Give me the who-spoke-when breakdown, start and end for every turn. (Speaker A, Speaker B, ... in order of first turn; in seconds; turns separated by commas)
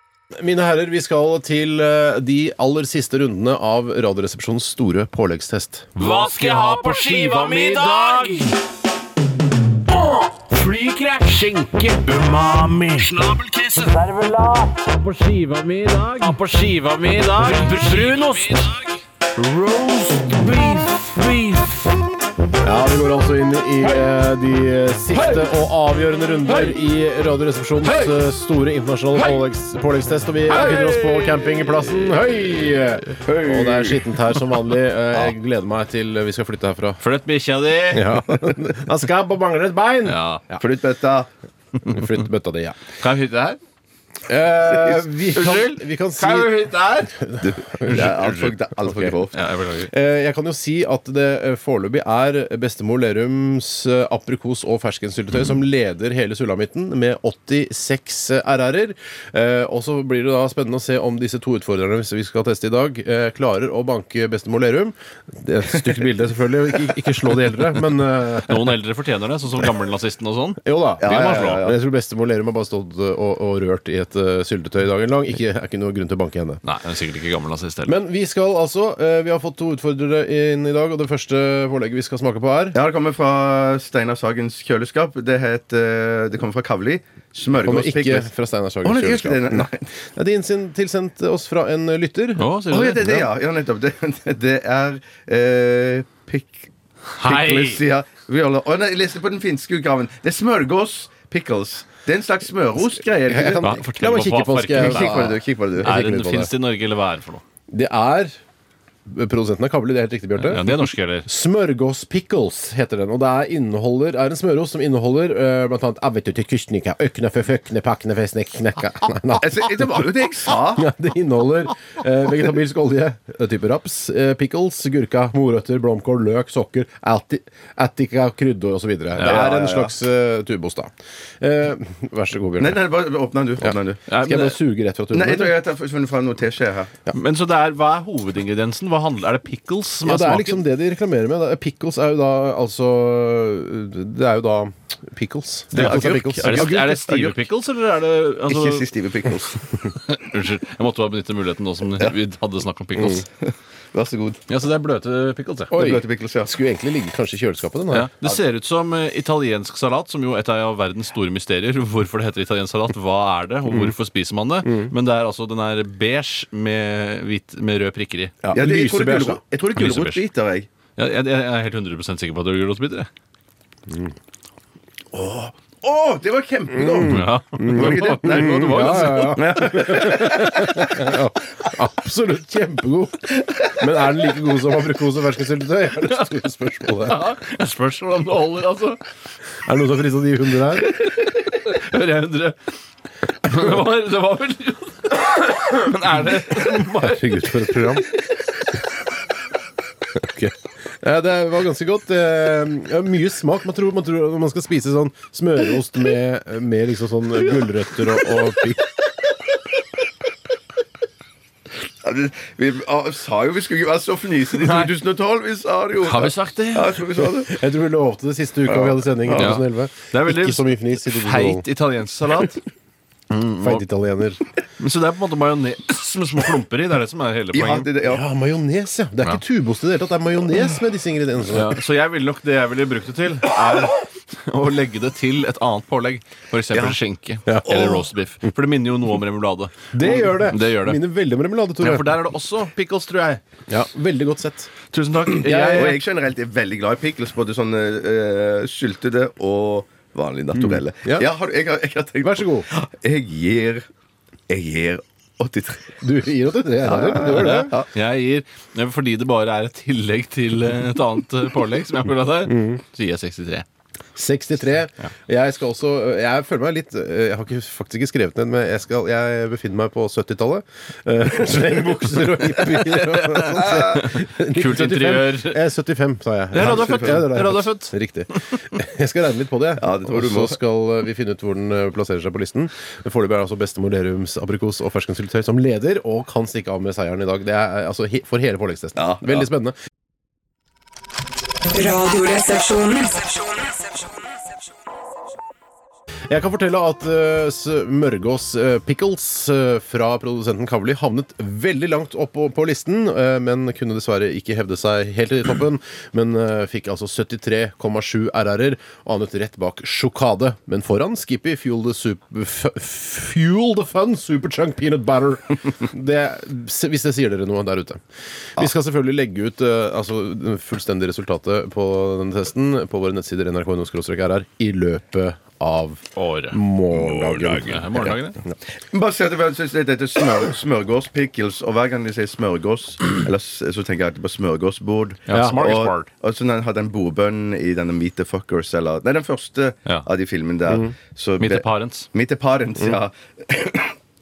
Speaker A: 0.4-6.3, Speaker B: 6.0-8.4, Speaker C: 6.5-7.6, Speaker A: 7.2-7.9, Speaker B: 10.6-13.8, Speaker B: 15.2-18.8, Speaker B: 19.5-21.7, Speaker A: 22.6-37.0, Speaker B: 30.5-31.4, Speaker D: 33.2-34.1, Speaker B: 37.0-38.2, Speaker A: 37.9-40.6, Speaker B: 40.0-40.4, Speaker D: 40.6-41.3, Speaker A: 41.9-42.8, Speaker B: 43.0-43.6, Speaker A: 44.3-48.1, Speaker B: 45.3-47.1, Speaker D: 47.4-49.4, Speaker B: 47.8-48.6, Speaker A: 48.8-49.2, Speaker B: 49.3-49.9, Speaker A: 49.8-68.8, Speaker B: 68.5-71.7, Speaker A: 70.6-76.6, Speaker D: 71.0-71.8, Speaker B: 76.6-78.0, Speaker A: 77.8-82.8, Speaker D: 82.7-88.3, Speaker A: 87.6-92.5, Speaker D: 88.8-89.9, Speaker B: 92.4-93.3, Speaker D: 92.7-103.8, Speaker B: 97.2-97.8, Speaker A: 103.2-106.5, Speaker B: 103.6-107.4, Speaker D: 104.7-105.9, Speaker A: 107.7-108.4, Speaker A: 109.1-110.7, Speaker B: 110.4-111.3, Speaker A: 111.2-132.8, Speaker D: 119.4-120.9, Speaker B: 129.2-129.5, Speaker D: 129.2-129.9, Speaker D: 132.6-134.1, Speaker A: 133.6-135.6, Speaker B: 134.1-134.6, Speaker D: 135.1-137.0, Speaker B: 137.1-140.6, Speaker A: 140.1-146.9, Speaker B: 145.7-148.9, Speaker D: 145.8-147.4, Speaker D: 148.5-149.8, Speaker B: 150.0-153.3, Speaker D: 153.4-154.4, Speaker B: 154.5-155.8, Speaker A: 155.7-158.1, Speaker D: 155.7-156.5, Speaker B: 157.9-168.7, Speaker A: 163.7-163.9, Speaker A: 164.6-164.9, Speaker A: 168.4-169.4, Speaker D: 168.5-170.7, Speaker B: 169.8-170.3, Speaker B: 171.0-173.1, Speaker D: 175.1-180.6, Speaker A: 176.7-187.2, Speaker B: 177.0-179.4, Speaker B: 187.0-189.0, Speaker A: 189.7-190.9, Speaker B: 190.8-192.6, Speaker B: 193.4-198.0, Speaker A: 197.0-198.1, Speaker A: 200.2-208.9, Speaker D: 212.0-217.5, Speaker B: 214.5-214.9, Speaker B: 216.0-217.2, Speaker A: 217.5-221.7, Speaker D: 218.7-219.6, Speaker B: 219.3-222.6, Speaker B: 223.3-223.8, Speaker A: 223.6-224.4, Speaker B: 224.8-227.9, Speaker D: 227.5-228.2, Speaker A: 228.1-231.8, Speaker B: 231.5-241.0, Speaker D: 236.7-237.0, Speaker A: 237.5-237.8, Speaker D: 237.7-238.0, Speaker A: 239.9-242.1, Speaker B: 241.8-243.4, Speaker A: 243.7-244.7, Speaker B: 244.9-246.0, Speaker A: 245.4-246.0, Speaker D: 245.6-253.9, Speaker A: 250.6-251.3, Speaker A: 252.2-252.7, Speaker D: 254.5-256.0, Speaker A: 256.0-257.8, Speaker D: 256.8-257.9, Speaker B: 257.3-263.7, Speaker A: 262.4-262.8, Speaker A: 264.2-289.8, Speaker B: 272.4-275.6, Speaker B: 276.5-277.9, Speaker D: 276.6-277.3, Speaker D: 279.8-280.6, Speaker D: 289.0-289.4, Speaker C: 291.7-293.6, Speaker A: 296.3-318.0, Speaker A: 318.6-328.5, Speaker B: 326.2-326.6, Speaker D: 326.9-328.1, Speaker B: 327.7-328.4, Speaker D: 328.8-344.0, Speaker B: 335.3-336.1, Speaker A: 335.3-335.7, Speaker A: 340.7-340.9, Speaker B: 341.4-342.1